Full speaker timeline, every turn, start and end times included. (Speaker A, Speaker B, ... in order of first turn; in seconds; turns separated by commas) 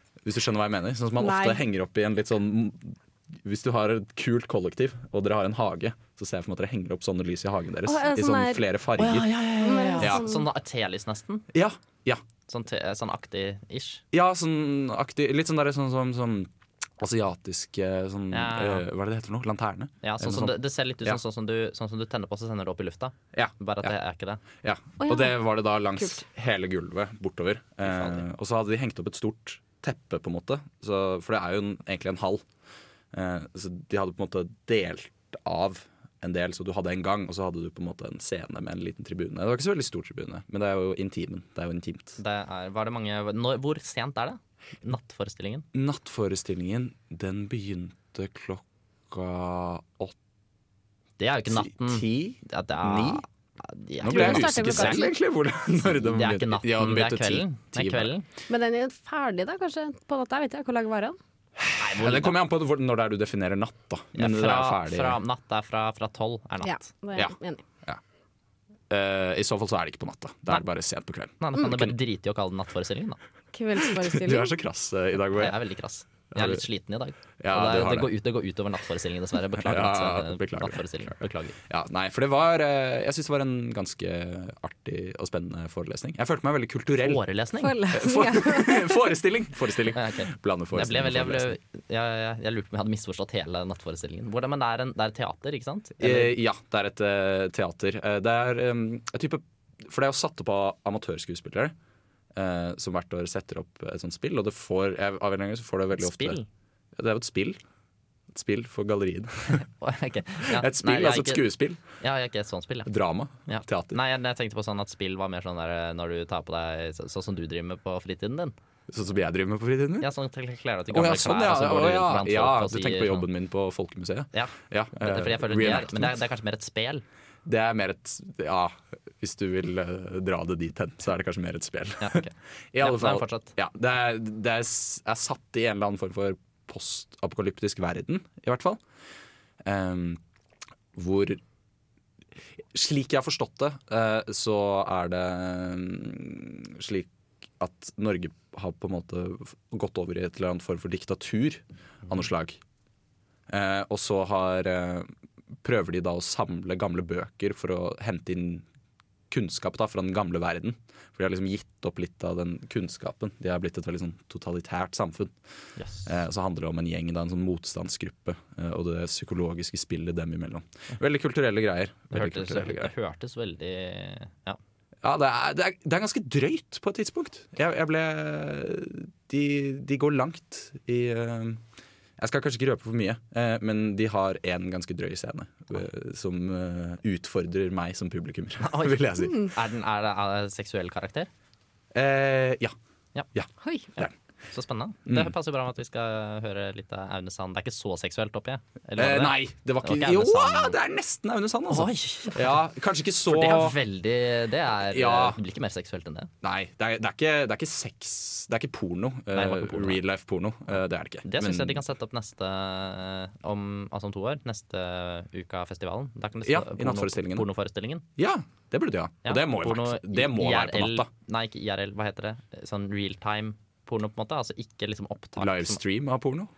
Speaker A: 0.2-9.4, Speaker B: 1.2-1.6, Speaker B: 7.8-8.6, Speaker C: 9.0-11.5, Speaker B: 9.6-10.4, Speaker A: 9.9-10.3, Speaker A: 11.5-12.2, Speaker C: 12.5-14.0, Speaker A: 14.1-21.2, Speaker C: 18.3-18.9, Speaker C: 20.0-24.4, Speaker A: 23.3-23.9, Speaker A: 24.6-32.4, Speaker B: 25.0-26.2, Speaker C: 27.8-28.2, Speaker A: 33.1-42.2, Speaker C: 42.2-45.7, Speaker A: 45.7-50.2, Speaker C: 51.2-55.1, Speaker A: 51.5-53.2, Speaker A: 54.0-58.1, Speaker B: 54.0-55.1, Speaker C: 55.8-58.3, Speaker B: 58.5-61.2, Speaker A: 61.6-65.2, Speaker C: 61.8-62.4, Speaker C: 64.2-66.8, Speaker B: 66.6-67.6, Speaker A: 67.2-68.0, Speaker A: 68.9-72.0, Speaker C: 71.4-73.2, Speaker B: 73.5-74.5, Speaker A: 73.8-75.6, Speaker C: 75.3-81.6, Speaker A: 76.3-76.6, Speaker A: 77.4-78.1, Speaker A: 79.6-80.8, Speaker A: 81.7-87.2, Speaker C: 87.0-87.8, Speaker B: 87.6-89.0, Speaker A: 87.9-91.5, Speaker C: 89.9-96.3, Speaker A: 96.0-101.7, Speaker A: 102.3-106.4, Speaker C: 106.0-106.5, Speaker A: 107.0-107.6, Speaker A: 108.3-109.7, Speaker C: 109.8-112.9, Speaker A: 110.4-111.8, Speaker A: 112.9-114.0, Speaker C: 113.5-118.5, Speaker A: 118.9-120.1, Speaker C: 120.0-123.3, Speaker A: 120.9-126.2, Speaker C: 124.3-127.0, Speaker A: 127.5-138.8, Speaker C: 132.0-133.5, Speaker A: 139.6-140.2, Speaker A: 140.9-141.4, Speaker A: 142.7-147.1, Speaker A: 147.6-152.6, Speaker A: 153.5-155.1, Speaker A: 155.6-158.7, Speaker A: 159.3-165.3, Speaker C: 165.8-166.1, Speaker A: 166.1-172.9, Speaker C: 172.1-174.6, Speaker A: 175.0-181.6, Speaker A: 182.2-189.5, Speaker C: 188.6-191.3, Speaker A: 191.9-192.8, Speaker A: 193.3-194.1, Speaker B: 193.6-193.9, Speaker C: 194.0-200.8, Speaker A: 195.1-195.3, Speaker A: 199.0-203.8, Speaker C: 201.7-202.6, Speaker C: 203.3-206.3, Speaker A: 204.9-205.4, Speaker A: 206.4-211.8, Speaker C: 209.3-210.0, Speaker C: 210.7-218.1, Speaker A: 216.4-217.5, Speaker A: 218.2-221.1, Speaker C: 219.2-225.8, Speaker A: 225.4-226.5